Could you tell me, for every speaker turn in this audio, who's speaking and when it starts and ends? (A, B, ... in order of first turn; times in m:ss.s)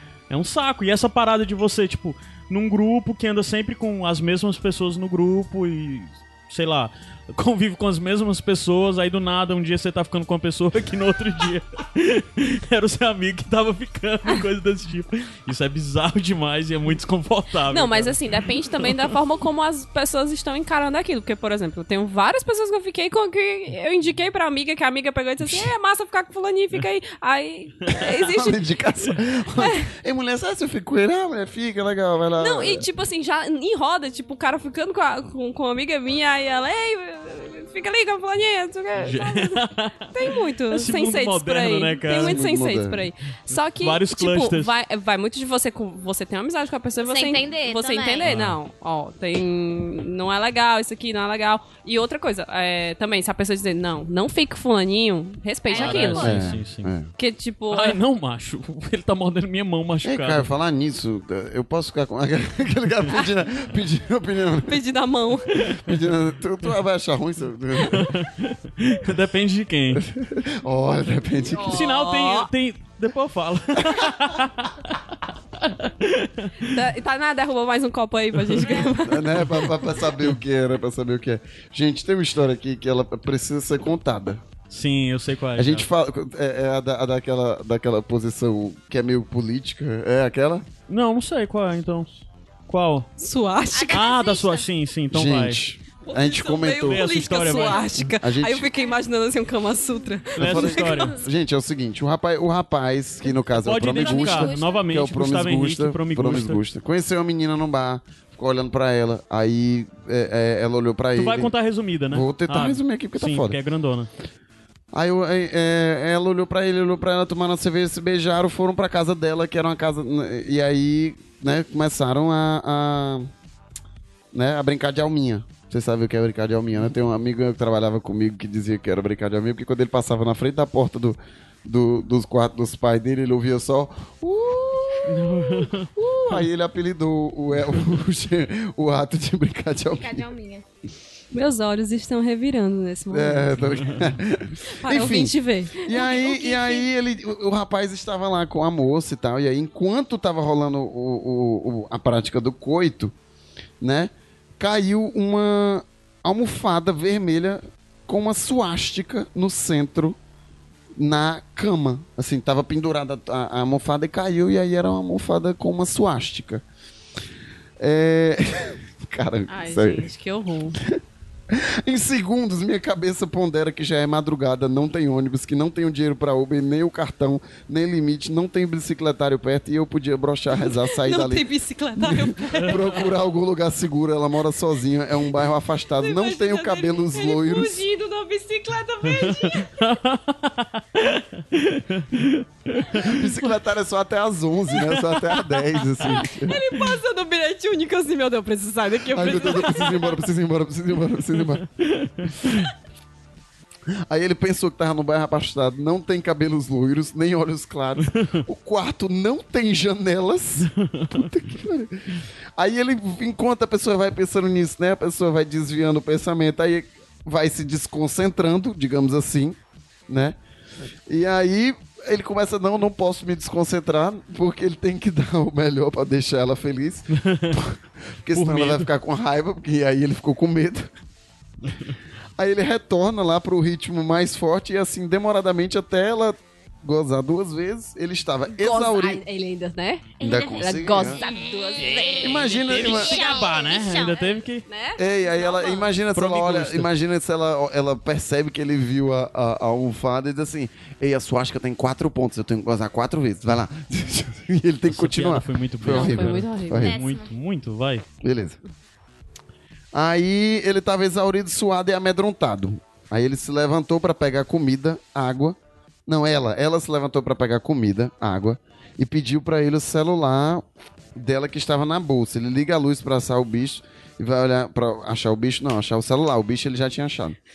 0:00.3-0:18.4 A
0:17.7-0:28.6 B
0:25.4-0:25.7 A
0:28.2-0:32.8 C
0:29.6-0:29.9 B
0:32.4-0:56.4 B
0:39.0-0:42.4 A
0:42.1-0:43.1 C
0:43.8-0:44.7 A
0:47.0-0:48.3 D
0:48.2-0:48.6 A
0:55.7-0:56.5 D
0:55.7-0:56.9 A
0:56.1-0:57.1 C
0:57.2-0:58.0 B
0:57.7-1:00.5 A
1:00.0-1:04.8 C
1:04.6-1:05.6 B
1:05.8-1:08.1 C
1:07.9-1:10.0 A
1:09.9-1:11.9 C
1:11.5-1:12.5 B
1:11.6-1:16.8 A
1:16.6-1:19.5 B
1:18.5-1:18.8 A
1:19.0-1:24.4 C
1:24.7-1:25.9 A
1:25.6-1:30.6 C
1:30.9-1:32.1 A
1:32.7-1:33.1 A
1:33.2-1:34.1 B
1:33.7-1:34.6 D
1:33.9-1:35.6 A
1:35.1-1:37.2 C
1:36.0-1:41.2 B
1:36.8-1:37.9 A
1:37.8-1:38.7 C
1:40.4-1:41.2 A
1:40.4-1:51.5 C
1:43.6-1:46.6 A
1:43.8-1:44.8 D
1:51.1-1:54.1 A
1:52.1-1:53.6 C
1:54.9-2:03.3 C
2:04.3-2:15.4 C
2:15.1-2:16.4 A
2:16.0-2:20.2 C
2:20.0-2:20.6 D
2:21.3-2:23.6 B
2:23.1-2:33.1 C
2:23.8-2:24.1 A
2:24.8-2:26.0 B
2:25.9-2:26.8 D
2:33.8-2:40.2 C
2:41.0-2:46.6 C
2:47.8-2:50.1 C
2:49.5-2:50.8 B
2:51.5-3:01.4 C
3:00.6-3:03.1 B
3:02.0-3:07.8 C
3:05.9-3:09.9 B
3:09.1-3:13.2 A
3:12.9-3:16.6 C
3:14.8-3:15.1 A
3:16.0-3:20.2 B
3:19.1-3:21.6 C
3:21.8-3:22.7 A
3:24.1-3:39.6 C
3:28.1-3:28.4 A
3:30.6-3:31.3 A
3:40.1-3:40.4 C
3:41.1-3:50.9 C
3:47.1-3:47.6 A
3:48.3-3:48.9 A
3:52.4-3:59.2 C
3:58.6-4:03.4 B
4:00.2-4:04.4 D
4:00.2-4:01.2 C
4:02.2-4:03.2 C
4:02.5-4:04.6 A
4:04.7-4:05.7 B
4:05.0-4:17.0 C
4:06.1-4:06.9 A
4:14.9-4:18.0 A
4:15.8-4:16.9 B
4:16.8-4:17.3 D
4:18.2-4:18.6 C
4:19.9-4:30.6 C
4:31.1-4:37.4 C